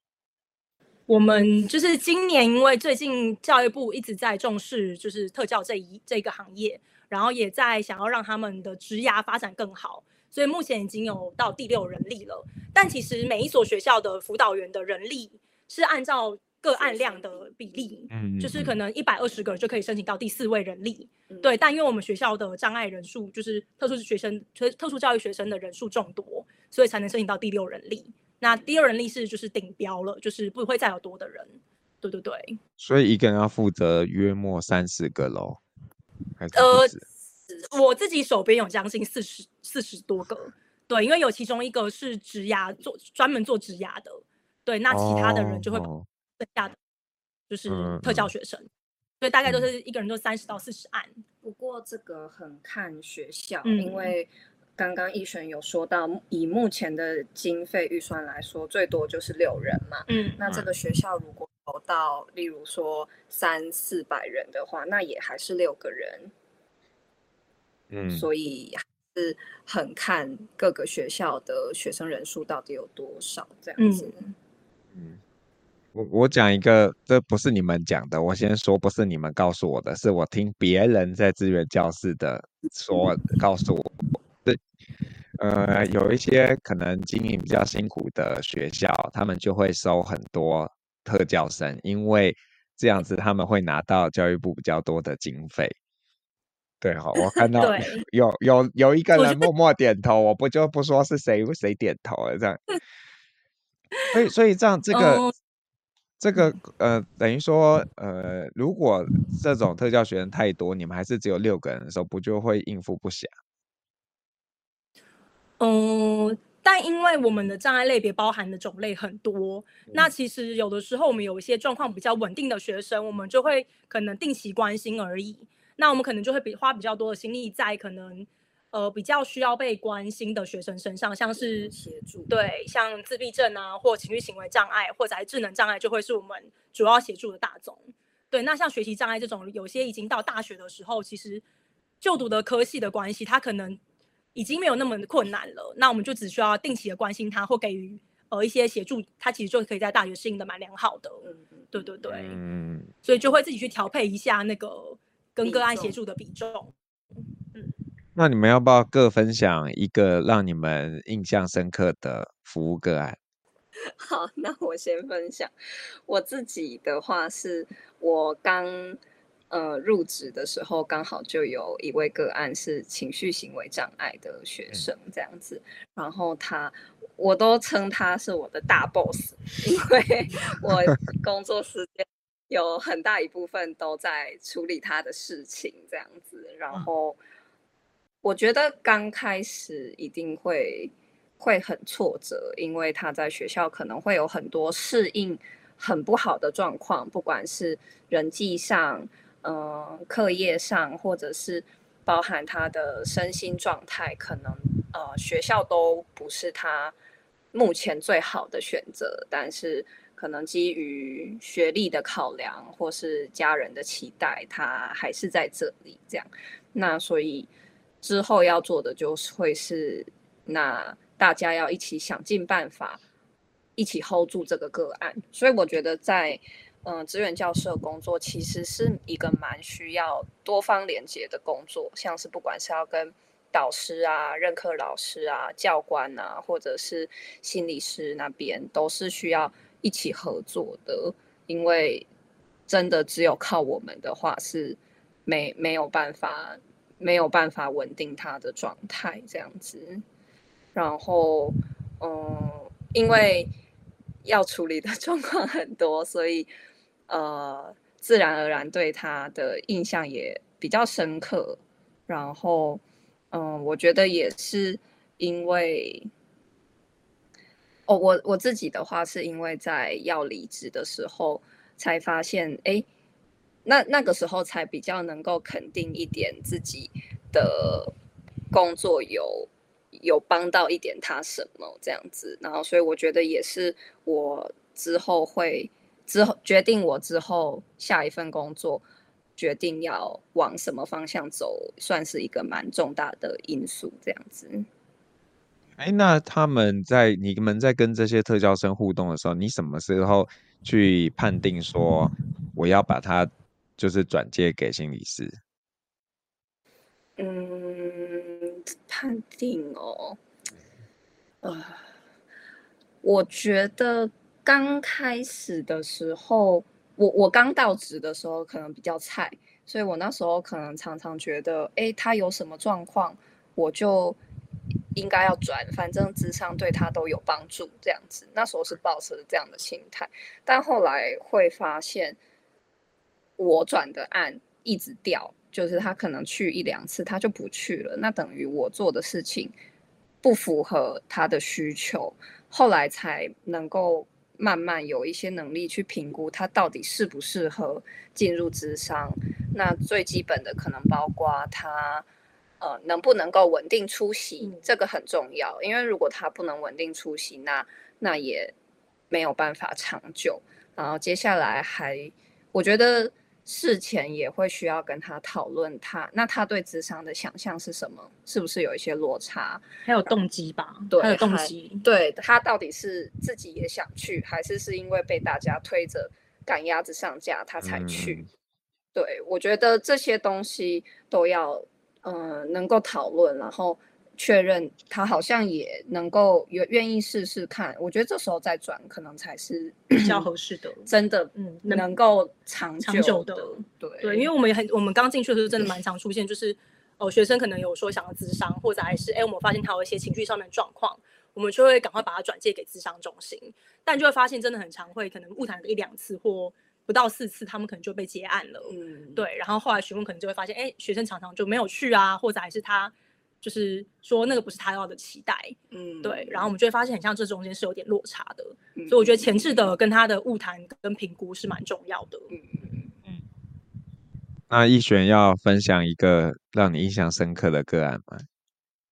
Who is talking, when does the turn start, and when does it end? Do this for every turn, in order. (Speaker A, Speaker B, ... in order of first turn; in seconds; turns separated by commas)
Speaker A: 1.1-32.6, Speaker B: 16.8-17.8, Speaker C: 18.1-18.7, Speaker B: 21.3-21.6, Speaker C: 32.8-35.6, Speaker C: 36.4-37.0, Speaker A: 36.5-36.9, Speaker A: 37.6-45.9, Speaker C: 44.9-46.1, Speaker A: 46.4-46.8, Speaker A: 47.5-48.7, Speaker C: 47.7-48.3, Speaker A: 49.2-51.2, Speaker B: 51.4-66.3, Speaker A: 53.6-54.1, Speaker A: 60.1-60.4, Speaker C: 67.9-68.2, Speaker B: 68.1-74.3, Speaker A: 73.8-74.1, Speaker C: 74.9-75.2, Speaker C: 76.0-83.9, Speaker C: 85.4-95.8, Speaker C: 96.8-102.6, Speaker A: 97.6-98.0, Speaker A: 99.2-99.5, Speaker C: 104.1-105.2, Speaker A: 104.9-105.3, Speaker C: 106.2-113.3, Speaker A: 115.6-131.7, Speaker B: 131.3-132.5, Speaker A: 132.3-141.4, Speaker A: 142.0-143.8, Speaker A: 144.3-152.4, Speaker B: 151.2-151.7, Speaker C: 152.1-152.9, Speaker A: 153.0-156.7, Speaker B: 155.4-155.9, Speaker C: 158.2-163.2, Speaker B: 163.9-165.5, Speaker B: 166.1-169.0, Speaker B: 169.5-187.2, Speaker B: 188.2-206.9, Speaker B: 207.5-217.5, Speaker B: 218.0-223.0, Speaker B: 223.8-242.1, Speaker B: 242.7-250.0, Speaker B: 250.8-253.5, Speaker B: 254.2-256.5, Speaker B: 257.1-266.1, Speaker B: 267.9-272.9, Speaker B: 273.6-277.9, Speaker B: 278.5-288.8, Speaker B: 289.4-294.7, Speaker C: 295.8-305.4, Speaker B: 307.2-310.2, Speaker B: 311.4-311.9, Speaker B: 313.0-324.2, Speaker B: 324.9-332.2, Speaker B: 333.4-339.5, Speaker B: 340.2-352.1, Speaker B: 352.6-358.5, Speaker A: 354.4-354.7, Speaker B: 359.1-370.1, Speaker A: 369.9-371.8, Speaker B: 370.9-378.2, Speaker C: 377.6-378.3, Speaker B: 378.9-390.2, Speaker A: 389.9-391.9, Speaker B: 390.9-394.3, Speaker A: 392.8-422.3, Speaker B: 408.7-409.2, Speaker B: 415.7-416.5, Speaker B: 418.8-419.3, Speaker B: 422.3-422.9, Speaker C: 424.5-428.3